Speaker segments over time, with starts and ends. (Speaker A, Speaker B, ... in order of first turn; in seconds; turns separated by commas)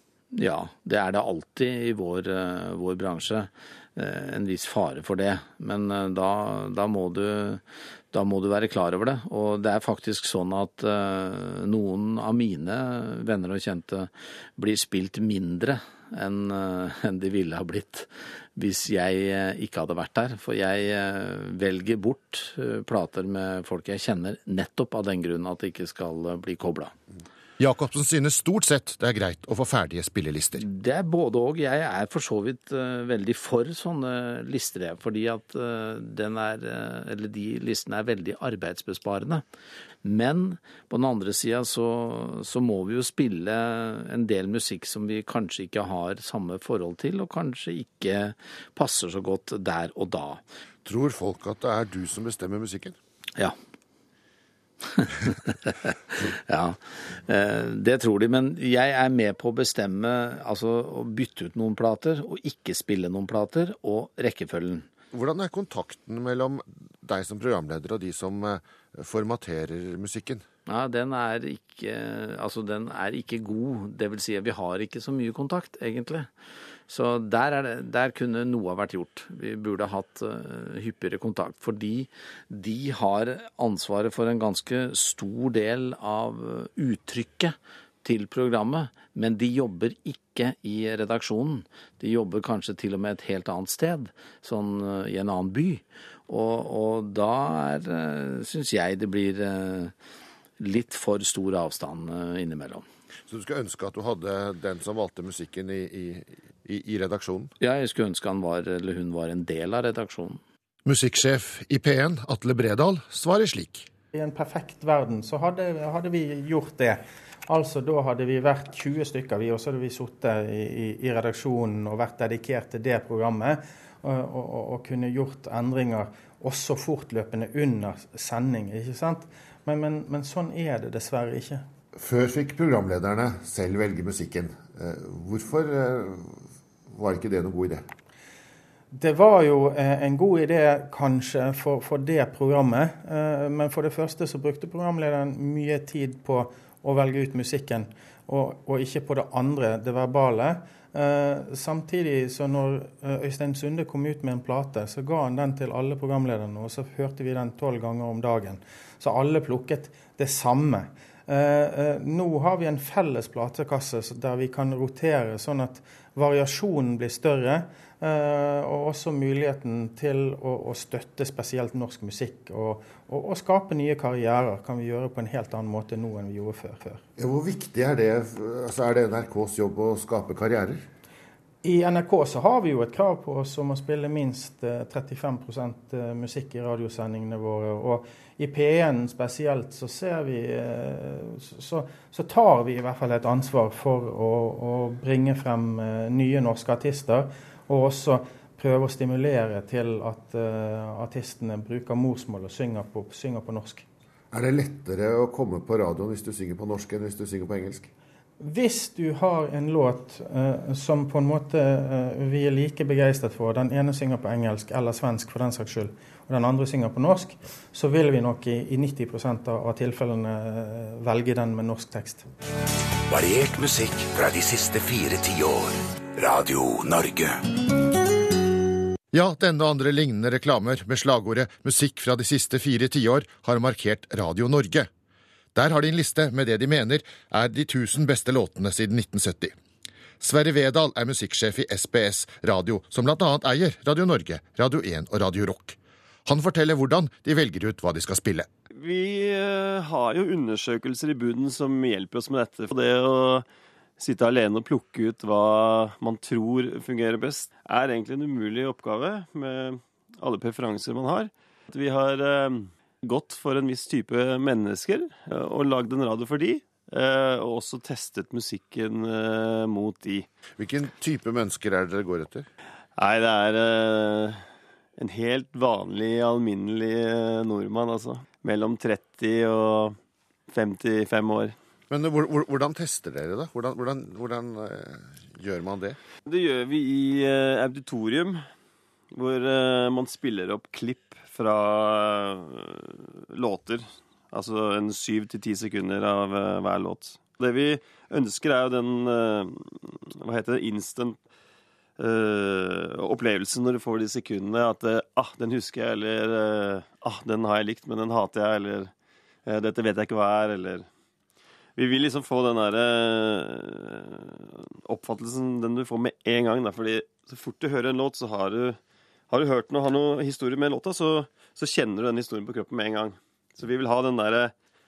Speaker A: 0.3-26.9, Speaker B: 27.6-30.6, Speaker A: 30.6-39.4, Speaker A: 40.0-50.4, Speaker B: 50.9-53.0, Speaker A: 54.9-64.8, Speaker B: 65.1-70.5, Speaker A: 70.7-76.3, Speaker A: 76.9-99.9, Speaker A: 100.6-102.8, Speaker B: 103.3-107.5, Speaker A: 107.6-110.4, Speaker B: 110.9-113.9, Speaker C: 114.1-131.7, Speaker B: 131.9-137.8, Speaker C: 138.9-177.0, Speaker B: 177.2-180.9, Speaker C: 181.6-203.8, Speaker B: 204.3-207.9, Speaker C: 208.4-222.3, Speaker D: 223.1-227.4, Speaker B: 229.1-234.9, Speaker B: 235.6-239.6, Speaker B: 240.2-248.5, Speaker E: 248.7-253.5, Speaker E: 254.0-270.3, Speaker B: 270.6-272.5, Speaker E: 273.0-274.4, Speaker E: 275.0-280.0, Speaker E: 280.5-281.6, Speaker B: 281.9-286.0, Speaker E: 286.3-288.4, Speaker E: 289.1-301.2, Speaker E: 302.0-308.9, Speaker E: 309.5-310.9, Speaker E: 311.8-318.8, Speaker E: 319.3-324.5